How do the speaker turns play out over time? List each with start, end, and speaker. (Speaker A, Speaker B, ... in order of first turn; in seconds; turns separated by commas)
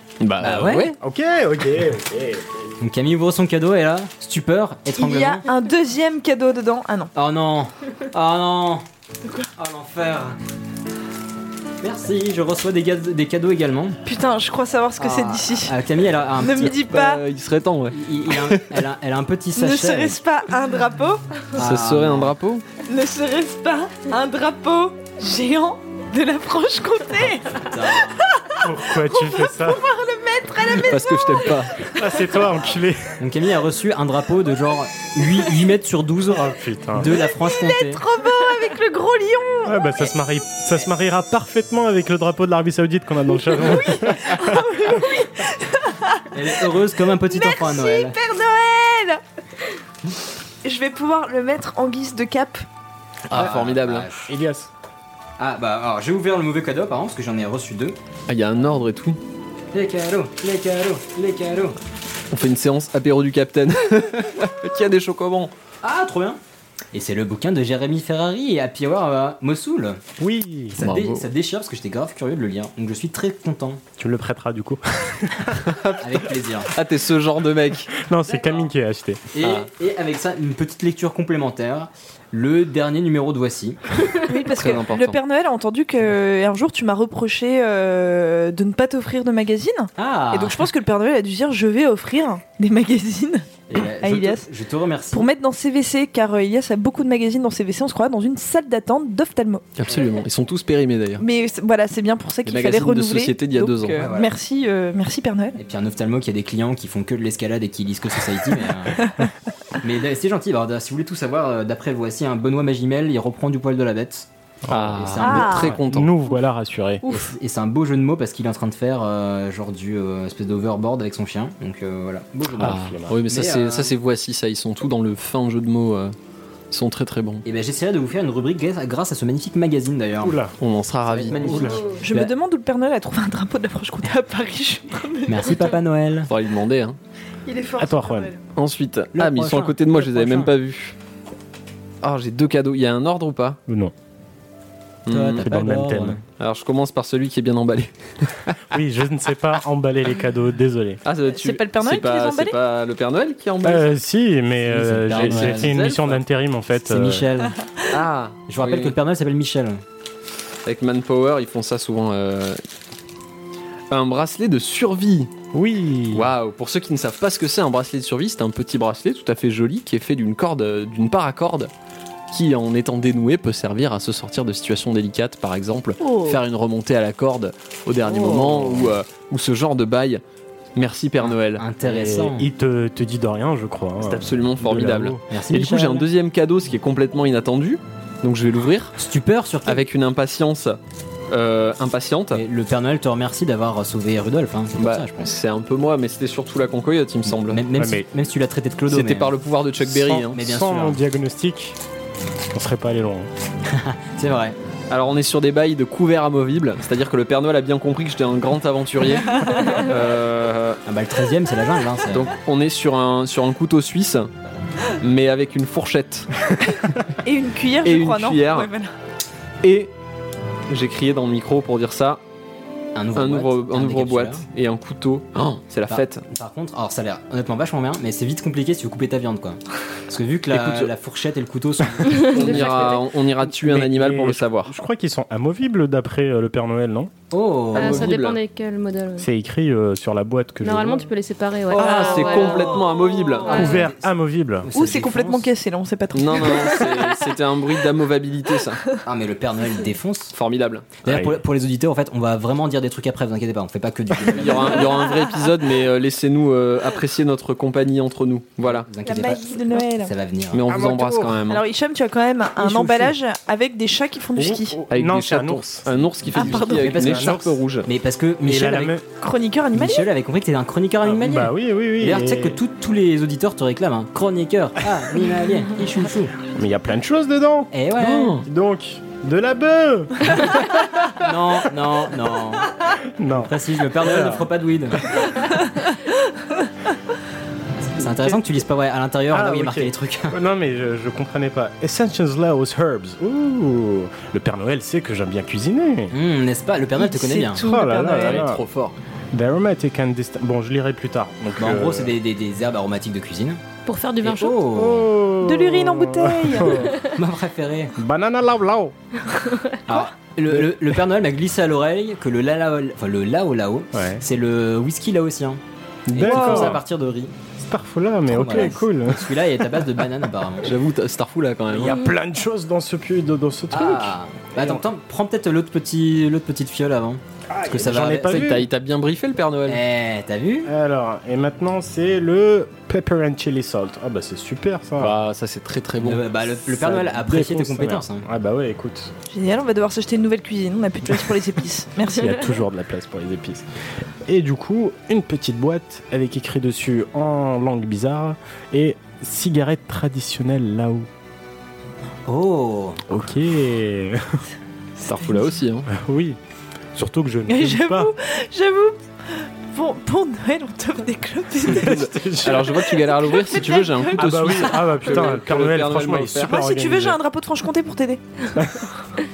Speaker A: 0.2-1.0, Speaker B: 0.4-0.9, Speaker C: 1.0-2.7, Speaker B: 2.8-5.4, Speaker D: 5.0-7.1, Speaker B: 7.2-8.8, Speaker B: 9.6-10.4, Speaker B: 11.8-14.0, Speaker D: 14.1-17.2, Speaker B: 15.0-16.8, Speaker A: 16.9-18.8, Speaker B: 17.9-20.2, Speaker D: 19.6-21.4, Speaker B: 21.6-22.3, Speaker A: 21.6-22.6, Speaker D: 22.8-31.8, Speaker B: 27.5-28.2, Speaker C: 28.6-29.8, Speaker A: 30.8-31.8, Speaker C: 31.9-33.1, Speaker B: 32.7-38.0, Speaker C: 36.3-37.1, Speaker D: 37.1-40.0, Speaker C: 39.7-44.6, Speaker D: 43.5-49.2, Speaker B: 46.3-48.2, Speaker D: 50.6-52.6, Speaker A: 53.3-54.1, Speaker B: 53.3-54.3, Speaker C: 54.3-54.7, Speaker B: 55.4-58.0, Speaker A: 58.3-59.2, Speaker B: 59.7-61.8, Speaker A: 62.3-65.5, Speaker B: 65.8-66.4, Speaker B: 66.9-70.0, Speaker C: 70.2-70.8, Speaker B: 70.7-73.8, Speaker A: 70.8-71.3, Speaker C: 74.0-75.7, Speaker A: 75.6-77.9, Speaker B: 76.0-76.7, Speaker C: 77.9-79.3, Speaker B: 79.3-83.8, Speaker A: 79.4-79.7, Speaker D: 84.3-94.5, Speaker A: 84.5-85.2, Speaker B: 90.0-90.7, Speaker B: 93.7-95.3, Speaker D: 95.1-99.7, Speaker A: 99.8-101.2, Speaker D: 101.2-105.6, Speaker A: 102.4-104.1, Speaker B: 104.0-104.3, Speaker B: 105.6-109.2, Speaker D: 109.0-109.3, Speaker B: 109.8-114.3, Speaker C: 114.7-117.0, Speaker A: 114.7-116.1, Speaker B: 115.0-115.8, Speaker D: 115.2-115.8, Speaker B: 117.1-124.0, Speaker C: 122.5-123.2, Speaker A: 122.6-126.1, Speaker A: 126.7-127.4, Speaker B: 127.5-130.4, Speaker C: 130.2-130.6, Speaker A: 130.6-131.9, Speaker B: 131.1-132.3, Speaker C: 131.3-131.8, Speaker D: 132.0-135.8, Speaker B: 135.3-136.3, Speaker A: 136.3-137.0, Speaker D: 137.5-138.4, Speaker C: 137.8-138.3, Speaker A: 138.6-141.0, Speaker B: 139.1-140.5, Speaker A: 142.0-143.6, Speaker C: 143.7-143.9, Speaker A: 145.1-145.5, Speaker B: 145.1-146.2, Speaker C: 145.4-146.2, Speaker A: 146.4-148.6, Speaker C: 148.7-151.0, Speaker A: 151.0-154.0, Speaker D: 151.3-152.6, Speaker C: 153.6-157.3, Speaker B: 154.7-155.8, Speaker A: 155.1-156.2, Speaker B: 156.8-157.6, Speaker A: 157.9-159.0, Speaker B: 158.5-159.8, Speaker A: 160.7-162.6, Speaker A: 163.9-165.3, Speaker C: 165.5-166.3, Speaker A: 166.1-171.7, Speaker A: 172.3-180.2, Speaker D: 176.0-176.4, Speaker B: 178.0-178.9, Speaker A: 180.8-181.7, Speaker B: 181.2-182.5, Speaker C: 181.8-185.2, Speaker A: 184.0-189.0, Speaker B: 185.3-186.1, Speaker B: 189.0-189.8, Speaker A: 189.7-190.8, Speaker A: 191.3-192.4, Speaker B: 192.3-195.3, Speaker A: 194.8-197.7, Speaker B: 197.3-199.3, Speaker C: 197.7-198.0, Speaker A: 198.9-200.4, Speaker C: 199.8-201.8, Speaker B: 200.3-201.0, Speaker C: 202.5-203.3, Speaker B: 203.7-204.6, Speaker A: 204.9-210.8, Speaker B: 210.9-212.3, Speaker A: 212.1-214.3, Speaker A: 215.0-217.0, Speaker D: 217.2-218.9, Speaker A: 217.8-218.7, Speaker A: 219.6-219.9, Speaker A: 220.7-222.2, Speaker B: 223.0-224.5, Speaker A: 223.2-226.2, Speaker B: 225.9-232.9, Speaker A: 230.5-230.9, Speaker E: 232.1-233.0, Speaker A: 232.1-234.7, Speaker C: 233.4-237.1, Speaker B: 237.3-238.2, Speaker A: 237.7-238.4, Speaker E: 237.8-239.3, Speaker C: 239.2-241.1, Speaker E: 240.6-242.8, Speaker B: 241.7-242.8, Speaker A: 241.7-243.8, Speaker B: 243.4-244.1, Speaker E: 243.4-243.8, Speaker C: 243.5-244.7, Speaker B: 244.6-245.5, Speaker D: 244.7-247.3, Speaker A: 246.1-248.9, Speaker B: 249.0-250.3, Speaker A: 250.3-251.1, Speaker B: 251.0-255.0, Speaker C: 251.1-251.3, Speaker A: 254.3-258.9, Speaker B: 258.6-260.7, Speaker D: 259.0-260.1, Speaker A: 260.5-261.6, Speaker C: 260.7-261.4, Speaker D: 261.5-264.8, Speaker B: 262.6-263.1, Speaker C: 264.4-267.5, Speaker A: 264.9-267.9, Speaker D: 266.3-267.0, Speaker B: 266.5-269.0, Speaker C: 268.4-269.0, Speaker D: 269.2-270.1, Speaker B: 269.7-276.4, Speaker C: 271.0-272.6, Speaker C: 276.5-277.7, Speaker B: 277.7-278.4, Speaker A: 278.0-278.4, Speaker C: 278.4-281.1, Speaker B: 281.1-282.8, Speaker C: 282.9-284.5, Speaker B: 283.4-285.1, Speaker B: 287.9-290.4, Speaker C: 289.3-296.1, Speaker B: 296.1-297.7, Speaker D: 297.0-298.4, Speaker C: 297.5-298.6, Speaker A: 298.1-299.0, Speaker C: 299.3-302.1, Speaker B: 301.6-303.6, Speaker E: 303.9-304.6, Speaker B: 304.2-305.2, Speaker C: 304.7-307.0, Speaker D: 305.4-306.9, Speaker B: 307.1-308.0, Speaker C: 308.0-308.9, Speaker E: 309.3-309.9, Speaker B: 309.9-317.3, Speaker C: 313.9-314.2, Speaker C: 316.1-316.8, Speaker D: 316.2-316.8, Speaker C: 317.6-320.1, Speaker B: 318.3-320.8, Speaker A: 320.6-322.0, Speaker C: 321.7-324.8, Speaker B: 323.7-328.6, Speaker C: 327.5-328.7, Speaker A: 328.3-329.8, Speaker B: 329.7-330.7, Speaker C: 330.7-335.2, Speaker A: 335.0-336.2, Speaker B: 336.0-338.2, Speaker C: 336.7-339.1, Speaker D: 339.3-342.4, Speaker C: 342.1-343.7, Speaker C: 344.3-351.1, Speaker B: 352.3-353.1, Speaker C: 353.1-354.4, Speaker A: 355.0-355.9, Speaker C: 355.9-356.4, Speaker C: 356.9-358.1, Speaker D: 357.5-362.1, Speaker C: 361.6-362.9, Speaker A: 361.7-366.6, Speaker D: 362.8-365.2, Speaker C: 364.1-367.2, Speaker D: 366.4-368.2, Speaker C: 368.6-368.9